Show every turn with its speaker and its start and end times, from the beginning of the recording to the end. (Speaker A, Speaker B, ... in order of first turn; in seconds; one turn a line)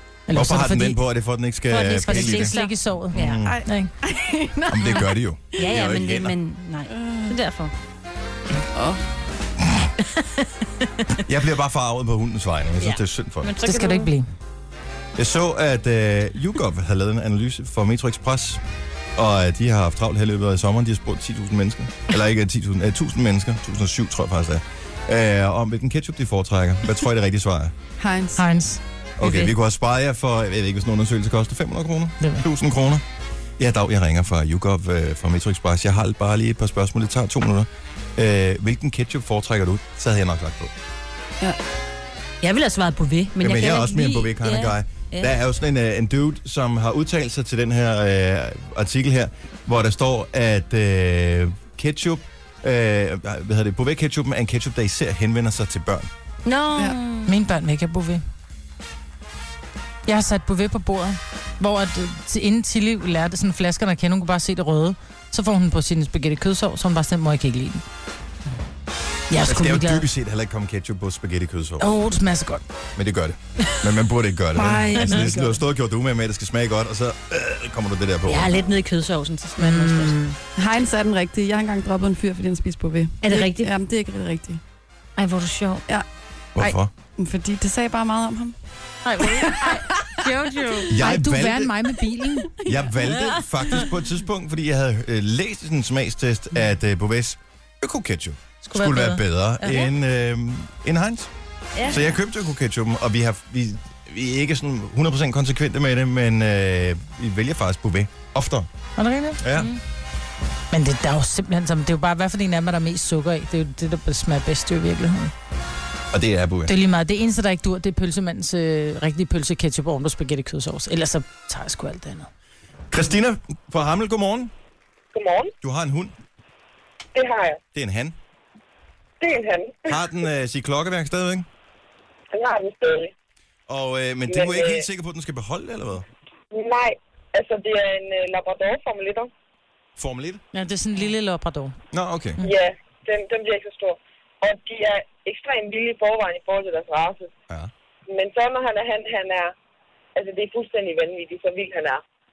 Speaker A: 0.3-1.0
Speaker B: 0.3-2.5
Speaker C: 1.7-3.5
Speaker A: 1.7-3.9
Speaker B: 3.1-3.6
Speaker D: 4.0-5.0
Speaker B: 4.7-6.3
Speaker C: 5.6-7.7
Speaker D: 6.9-7.3
Speaker D: 8.7-9.0
Speaker C: 10.0-11.2
Speaker B: 11.2-13.5
Speaker C: 12.8-14.1
Speaker A: 13.6-14.2
Speaker B: 15.2-18.6
Speaker B: 19.1-27.7
Speaker D: 28.0-28.4
Speaker A: 28.4-28.8
Speaker B: 29.2-33.0
Speaker C: 29.2-29.5
Speaker B: 33.6-40.7
Speaker C: 42.4-45.3
Speaker B: 43.4-56.1
Speaker C: 56.4-57.3
Speaker A: 57.2-58.2
Speaker A: 60.0-67.8
Speaker A: 69.3-70.0
Speaker B: 69.4-71.9
Speaker A: 71.8-72.6
Speaker B: 72.9-78.7
Speaker A: 74.5-75.5
Speaker C: 74.9-75.3
Speaker C: 78.2-80.3
Speaker A: 79.6-80.3
Speaker D: 80.6-84.6
Speaker C: 83.2-83.7
Speaker C: 85.2-85.8
Speaker B: 86.5-86.9
Speaker D: 86.6-88.5
Speaker A: 89.0-92.5
Speaker D: 89.2-90.1
Speaker C: 89.2-89.5
Speaker B: 90.9-91.7
Speaker B: 92.6-101.3
Speaker A: 98.7-99.8
Speaker C: 101.8-102.1
Speaker B: 101.8-108.7
Speaker A: 109.0-109.4
Speaker B: 109.4-109.7
Speaker A: 110.7-115.3
Speaker B: 116.1-116.7
Speaker A: 116.7-122.3
Speaker B: 122.9-124.5
Speaker E: 125.1-125.5
Speaker B: 125.6-126.1
Speaker E: 127.1-127.6
Speaker B: 127.7-128.2
Speaker E: 129.2-130.0
Speaker B: 129.9-131.5
Speaker E: 132.3-133.1
Speaker B: 133.7-136.1
Speaker E: 134.3-134.8
Speaker E: 136.5-139.3
Speaker B: 140.0-140.4
Speaker A: 140.5-141.8
Speaker B: 141.9-142.4
Speaker E: 142.4-147.3
Speaker E: 148.1-149.5
Speaker E: 150.1-152.0